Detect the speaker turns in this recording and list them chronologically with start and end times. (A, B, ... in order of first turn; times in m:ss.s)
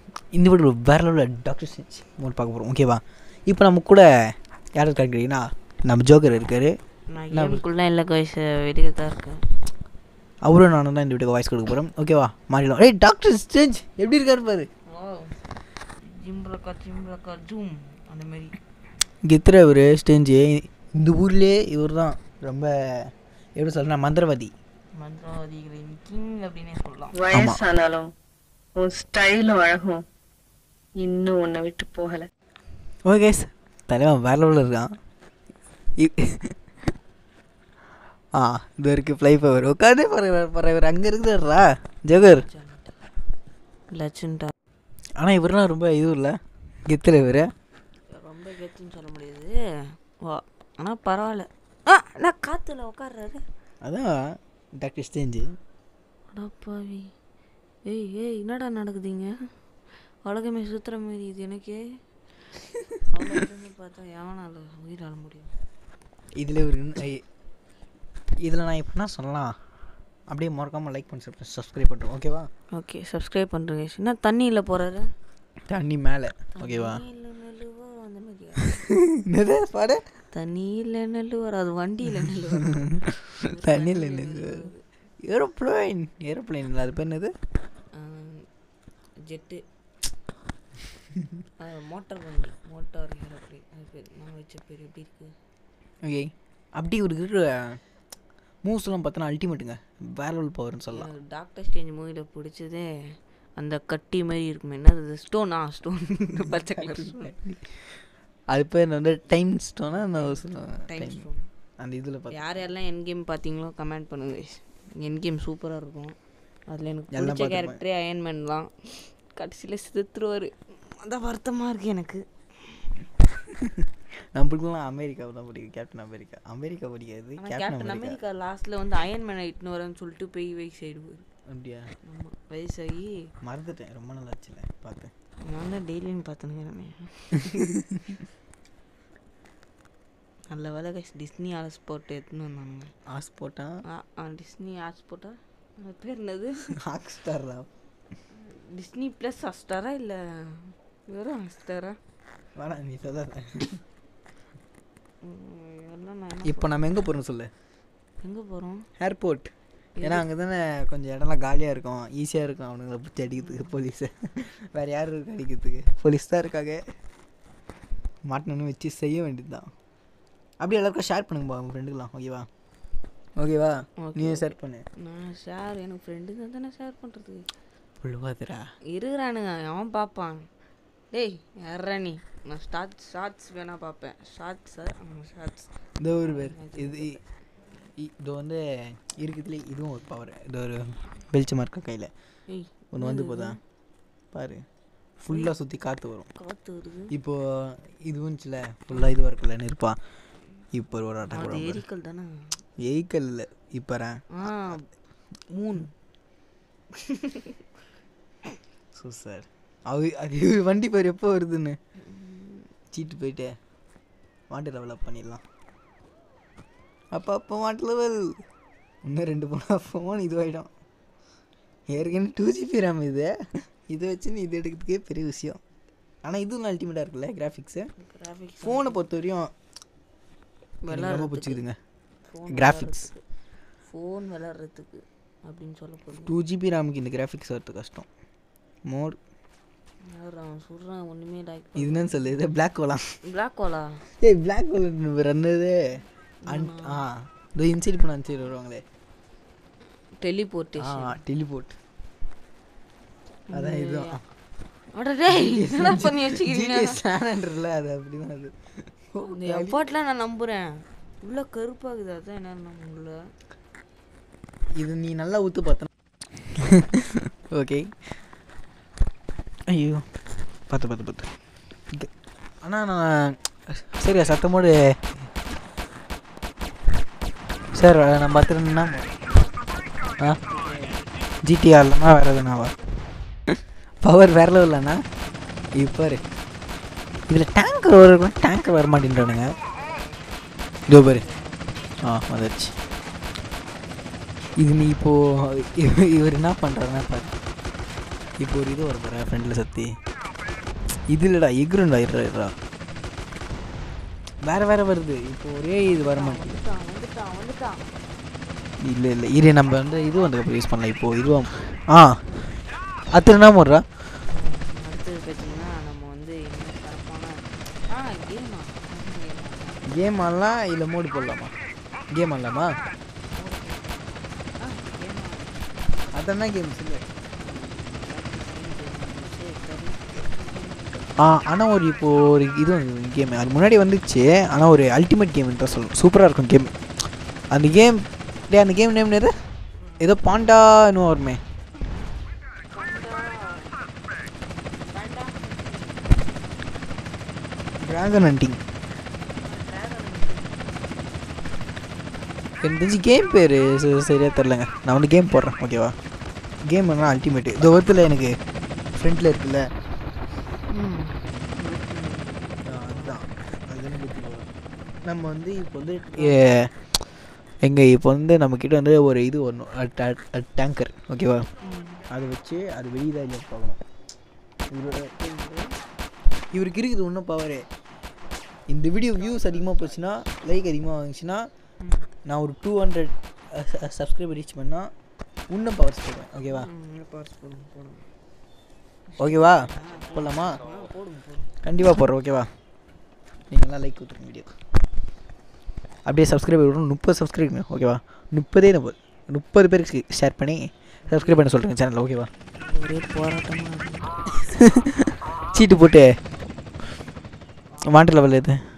0:00.3-0:06.7 A
0:07.1-0:09.5 B
0:07.3-0:07.6 A
0:10.4-0:14.7 A
0:14.9-0:15.5 B
0:16.0-0:18.6 B
0:19.2-0:24.5 A
0:25.0-0:27.1 B
0:27.1-0:28.1 C
0:27.3-0:27.6 A
0:28.8-0:30.0 C
0:31.0-0:32.3 C
0:33.1-0:34.9 A
0:36.0-0:36.6 A
0:38.4-0:42.4 A
0:42.2-0:43.0 B
0:43.9-0:44.5 B
0:45.2-0:47.5 A
0:48.1-0:49.5 B
0:50.2-0:53.4 B
0:53.8-0:55.5 A
0:56.3-0:57.1 B
0:57.8-0:59.3 B
1:00.2-1:01.8 B
1:03.1-1:05.5 B
1:06.4-1:07.2 A
1:08.4-1:09.5 A
1:10.3-1:12.5 A
1:12.8-1:15.1 B
1:15.7-1:17.0 A
1:16.6-1:18.8 B
1:18.9-1:20.0 A
1:20.3-1:22.8 B
1:23.4-1:24.8 B
1:23.5-1:24.7 A
1:25.2-1:27.3 A
1:27.9-1:28.5 B
1:29.2-1:29.6 B
1:31.6-1:35.3 B
1:36.0-1:37.8 A
1:38.6-1:41.1 A
1:40.9-1:42.9 B
1:43.6-1:47.3 B
1:46.4-1:48.0 A
1:48.5-1:51.3 A
1:50.0-1:51.5 B
1:51.8-1:52.6 A
1:52.3-1:56.2 B
1:56.7-2:02.9 B
1:57.1-1:57.8 A
2:03.6-2:08.2 A
2:07.4-2:11.3 B
2:11.5-2:11.9 A
2:12.0-2:13.1 B
2:13.4-2:15.1 A
2:15.4-2:17.6 B
2:17.5-2:18.0 A
2:20.5-2:22.9 B
2:23.1-2:23.8 A
2:23.9-2:26.7 B
2:26.7-2:27.7 A
2:28.3-2:32.0 B
2:32.6-2:33.8 A
2:35.2-2:36.7 B
2:36.4-2:37.5 A
2:38.2-2:38.9 B
2:39.0-2:46.8 A
2:40.0-2:40.2 B
2:48.3-2:49.7 A
2:50.6-2:52.5 A
2:53.4-2:54.8 A
2:54.0-2:57.5 B
2:58.0-2:58.7 A
2:58.9-3:00.5 B
3:01.1-3:07.2 B
3:06.0-3:07.2 A
3:08.0-3:12.1 A
3:12.5-3:13.6 B
3:12.9-3:13.6 A
3:14.3-3:14.6 A
3:15.2-3:16.3 A
3:16.4-3:17.1 B
3:17.1-3:20.0 A
3:20.7-3:21.8 A
3:21.3-3:22.3 B
3:22.8-3:24.8 A
3:24.4-3:24.9 B
3:25.5-3:25.9 B
3:27.0-3:27.5 B
3:29.0-3:31.8 A
3:32.1-3:32.7 B
3:32.9-3:33.5 A
3:34.5-3:35.4 A
3:37.1-3:38.4 A
3:39.1-3:40.7 A
3:41.9-3:45.6 A
3:46.2-3:47.9 A
3:48.0-3:49.0 B
3:48.6-3:49.5 A
3:50.8-3:51.6 B
3:50.9-3:51.8 A
3:52.3-3:53.2 B
3:52.5-3:53.1 A
3:53.8-3:56.3 B
3:56.2-3:58.1 A
3:58.9-3:59.2 A
4:00.1-4:02.2 B
4:01.8-4:03.0 A
4:03.2-4:04.0 B
4:04.2-4:08.8 A
4:06.5-4:07.0 B
4:10.2-4:11.2 B
4:10.8-4:11.8 A
4:13.5-4:14.2 B
4:13.5-4:14.2 A
4:14.9-4:17.0 B
4:15.3-4:19.8 A
4:19.2-4:23.2 B
4:24.8-4:25.9 A
4:26.6-4:28.0 A
4:29.7-4:30.0 A
4:30.7-4:31.3 A
4:32.6-4:35.2 A
4:37.8-4:39.2 A
4:40.4-4:41.1 B
4:41.4-4:42.7 A
4:44.0-4:45.0 A
4:45.8-4:46.2 A
4:47.3-4:49.6 A
4:49.7-4:52.0 B
4:50.9-4:51.3 A
4:52.0-4:52.7 A
4:54.6-4:57.4 A
4:58.4-4:59.9 A
5:01.1-5:02.6 A
5:04.4-5:06.5 A
5:05.8-5:07.9 B
5:08.8-5:12.2 A
5:13.1-5:13.8 A
5:14.3-5:19.8 B
5:19.9-5:21.5 A
5:22.1-5:22.7 A
5:23.3-5:25.7 B
5:26.1-5:27.0 A
5:27.4-5:31.1 B
5:31.2-5:36.7 A
5:37.5-5:39.3 A
5:40.0-5:41.4 A
5:42.7-5:43.9 B
5:44.7-5:46.6 B
5:47.8-5:48.6 A
5:49.3-5:51.5 B
5:52.6-5:56.0 A
5:56.6-5:58.4 A
5:59.0-5:59.7 A
6:00.7-6:03.2 B
6:02.6-6:04.5 A
6:05.1-6:06.7 A
6:06.1-6:06.4 B
6:07.6-6:11.5 A
6:11.6-6:12.0 B
6:12.1-6:13.8 A
6:14.7-6:15.1 A
6:15.0-6:15.8 B
6:16.5-6:17.7 A
6:18.7-6:21.5 A
6:21.8-6:22.1 B
6:22.3-6:24.9 A
6:25.5-6:26.7 A
6:26.5-6:28.1 B
6:29.1-6:31.6 B
6:29.2-6:30.6 A
6:31.6-6:32.5 A
6:33.5-6:34.5 A
6:36.1-6:42.3 A
6:41.1-6:41.5 B
6:42.6-6:44.1 B
6:44.4-6:46.2 A
6:47.8-6:48.6 A